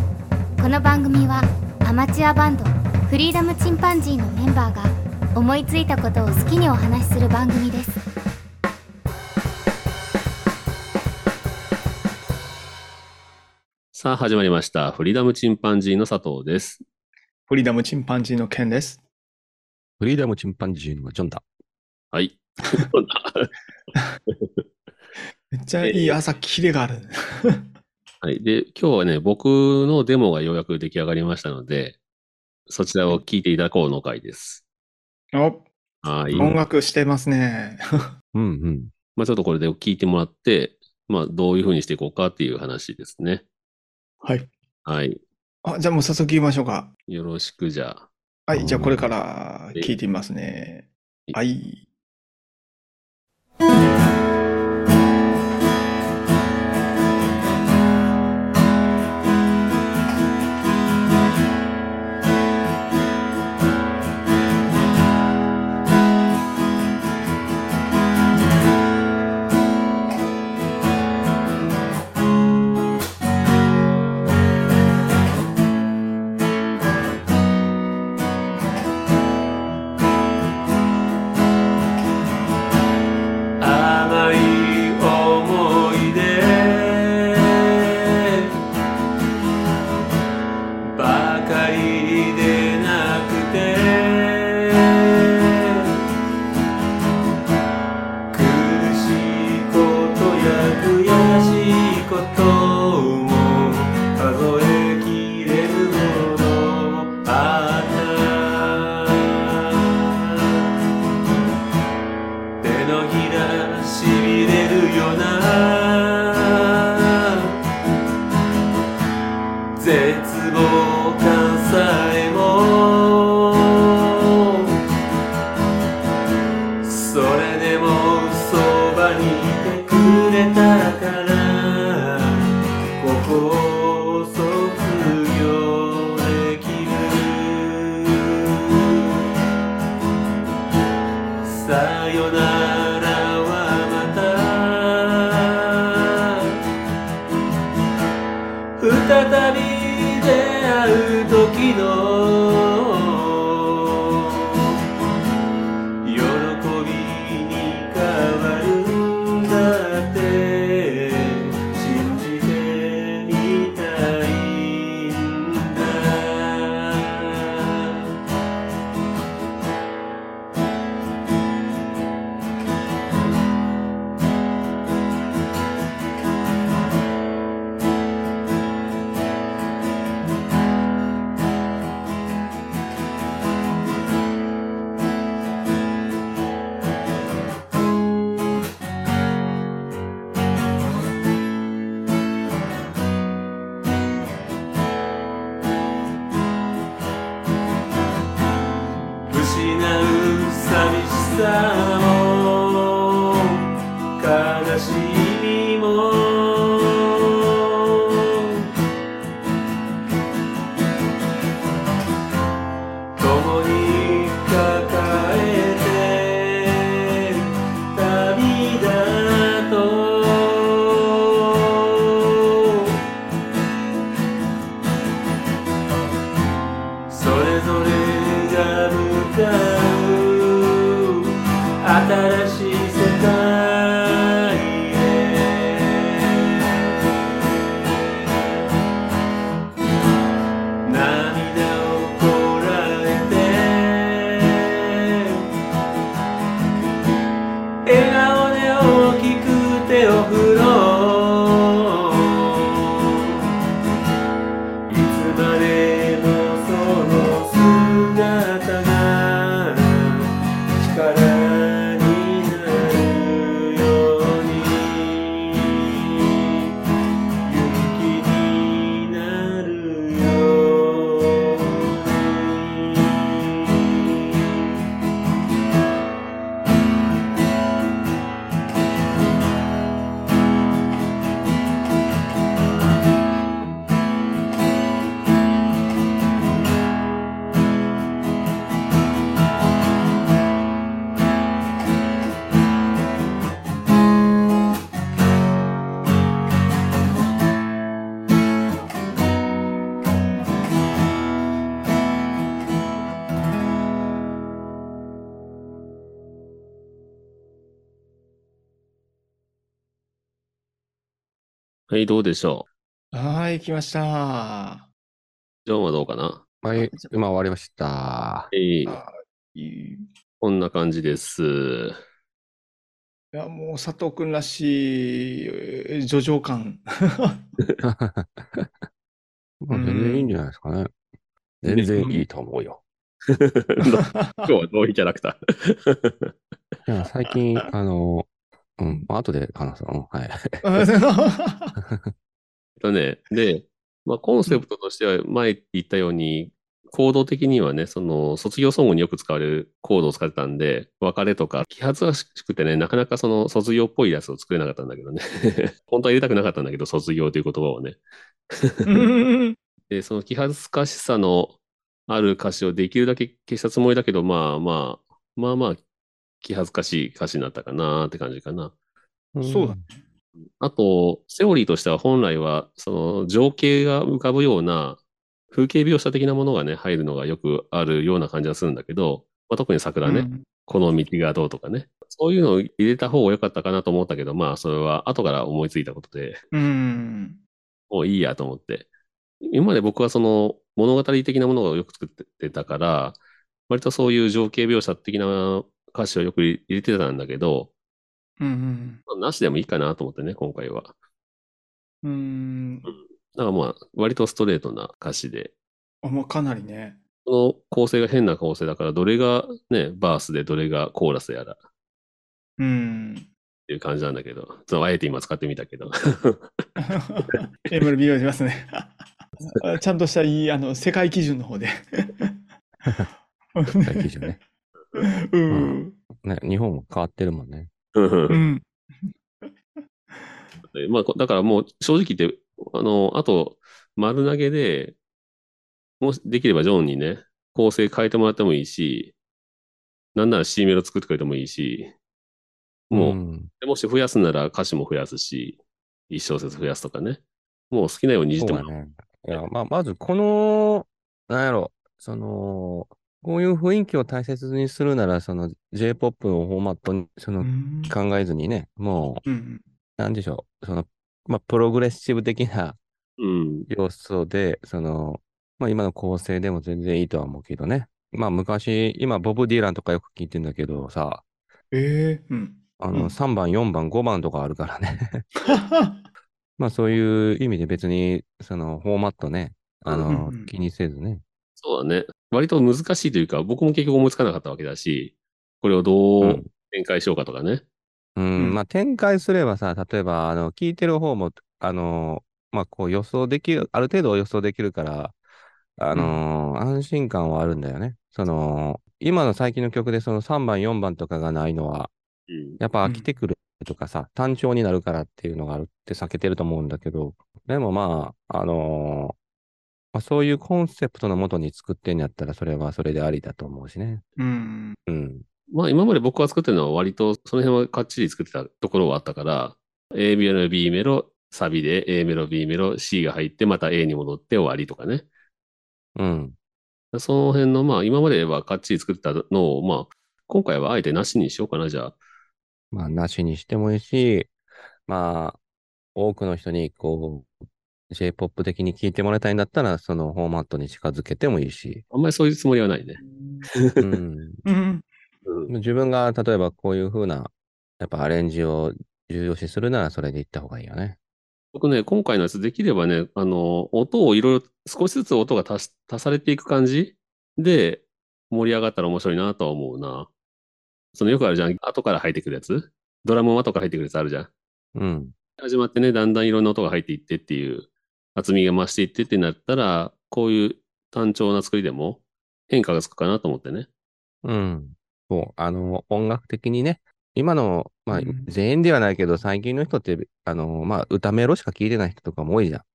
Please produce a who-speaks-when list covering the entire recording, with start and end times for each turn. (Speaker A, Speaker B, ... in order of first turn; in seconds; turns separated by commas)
Speaker A: 0.6-8.0, Speaker B: 13.9-16.8, Speaker C: 17.5-19.0, Speaker D: 20.0-21.4, Speaker B: 22.1-23.5, Speaker C: 25.5-27.7, Speaker B: 25.8-26.2, Speaker B: 28.2-32.0, Speaker B: 32.7-34.6, Speaker C: 35.3-35.7, Speaker B: 36.0-36.6, Speaker C: 36.3-37.8, Speaker D: 38.3-38.9, Speaker B: 39.1-43.4, Speaker C: 44.2-44.5, Speaker B: 44.9-45.2, Speaker C: 45.6-46.9, Speaker B: 47.1-48.1, Speaker C: 48.5-51.9, Speaker D: 48.5-49.1, Speaker E: 83.6-88.5, Speaker E: 90.9-96.0, Speaker B: 91.1-91.3, Speaker E: 98.3-110.6, Speaker B: 100.3-101.0, Speaker E: 112.6-117.5, Speaker B: 114.0-115.2, Speaker E: 119.8-124.7, Speaker E: 126.9-139.5, Speaker B: 128.5-129.2, Speaker E: 141.4-146.5, Speaker E: 148.8-154.8, Speaker E: 156.1-168.1, Speaker B: 161.8-162.4, Speaker B: 199.3-200.0, Speaker E: 199.3-203.6, Speaker B: 200.8-201.8, Speaker E: 204.3-208.6, Speaker E: 213.2-223.0, Speaker E: 227.1-238.4, Speaker B: 232.6-233.0, Speaker E: 240.9-245.4, Speaker E: 247.9-253.5, Speaker E: 254.9-266.7, Speaker B: 258.2-258.8, Speaker E: 267.5-274.6, Speaker B: 267.5-268.1, Speaker B: 311.9-312.7, Speaker C: 313.1-314.9, Speaker B: 315.7-316.4, Speaker D: 316.6-318.5, Speaker C: 316.8-317.1, Speaker B: 318.5-319.0, Speaker C: 318.9-320.1, Speaker B: 320.4-322.0, Speaker C: 323.3-327.4, Speaker D: 327.8-328.7, Speaker D: 329.6-330.9, Speaker C: 329.7-330.4, Speaker D: 331.6-332.8, Speaker C: 332.0-332.3, Speaker B: 333.4-336.3, Speaker C: 333.9-334.5, Speaker D: 336.9-340.7, Speaker C: 340.6-341.8, Speaker B: 342.8-358.0, Speaker B: 358.5-359.1, Speaker C: 358.9-359.6, Speaker B: 359.9-361.6, Speaker B: 362.1-365.8, Speaker B: 366.4-368.7, Speaker D: 369.4-369.8, Speaker C: 369.4-370.0, Speaker B: 370.6-375.0, Speaker B: 375.5-386.4, Speaker C: 380.0-380.5, Speaker C: 386.5-387.4, Speaker B: 387.9-388.9, Speaker B: 389.4-397.7, Speaker C: 398.4-399.0, Speaker B: 399.1-400.9, Speaker C: 402.0-402.9, Speaker B: 402.9-405.5, Speaker C: 406.0-407.0, Speaker B: 407.2-411.6, Speaker C: 412.6-413.3, Speaker B: 413.7-416.4, Speaker C: 416.8-422.3, Speaker C: 423.6-424.4, Speaker D: 423.7-424.4, Speaker C: 424.9-426.0, Speaker D: 425.5-427.7, Speaker B: 427.9-428.4, Speaker C: 428.3-429.5, Speaker B: 430.7-435.0, Speaker B: 436.0-439.1, Speaker B: 440.1-441.9, Speaker B: 442.9-445.6, Speaker D: 442.9-443.5, Speaker B: 446.1-448.7, Speaker D: 448.4-459.2, Speaker C: 457.4-457.9, Speaker C: 459.3-459.6, Speaker D: 460.0-462.8, Speaker B: 463.2-463.7, Speaker D: 463.7-471.2, Speaker C: 471.7-473.1, Speaker D: 472.8-475.3, Speaker C: 475.4-476.0, Speaker D: 476.6-481.2, Speaker C: 480.1-480.5, Speaker B: 481.6-487.6, Speaker D: 486.2-486.5, Speaker D: 488.2-495.1, Speaker D: 495.8-501.9, Speaker C: 495.9-496.2, Speaker B: 502.3-502.6, Speaker D: 502.6-509.2, Speaker D: 509.9-514.0, Speaker C: 514.2-514.8, Speaker D: 514.9-515.2, Speaker B: 515.5-525.1, Speaker D: 526.0-526.4, Speaker B: 526.9-532.0, Speaker D: 532.7-534.3, Speaker D: 534.9-535.4, Speaker D: 536.0-537.3, Speaker D: 537.9-541.8, Speaker B: 541.9-543.0, Speaker C: 543.0-543.5, Speaker D: 543.8-544.4, Speaker C: 544.5-544.9, Speaker B: 545.3-545.5, Speaker D: 545.5-551.0, Speaker B: 551.5-560.1, Speaker B: 560.9-564.3, Speaker D: 564.8-565.1, Speaker B: 565.4-573.7, Speaker D: 574.2-582.6, Speaker C: 577.9-578.3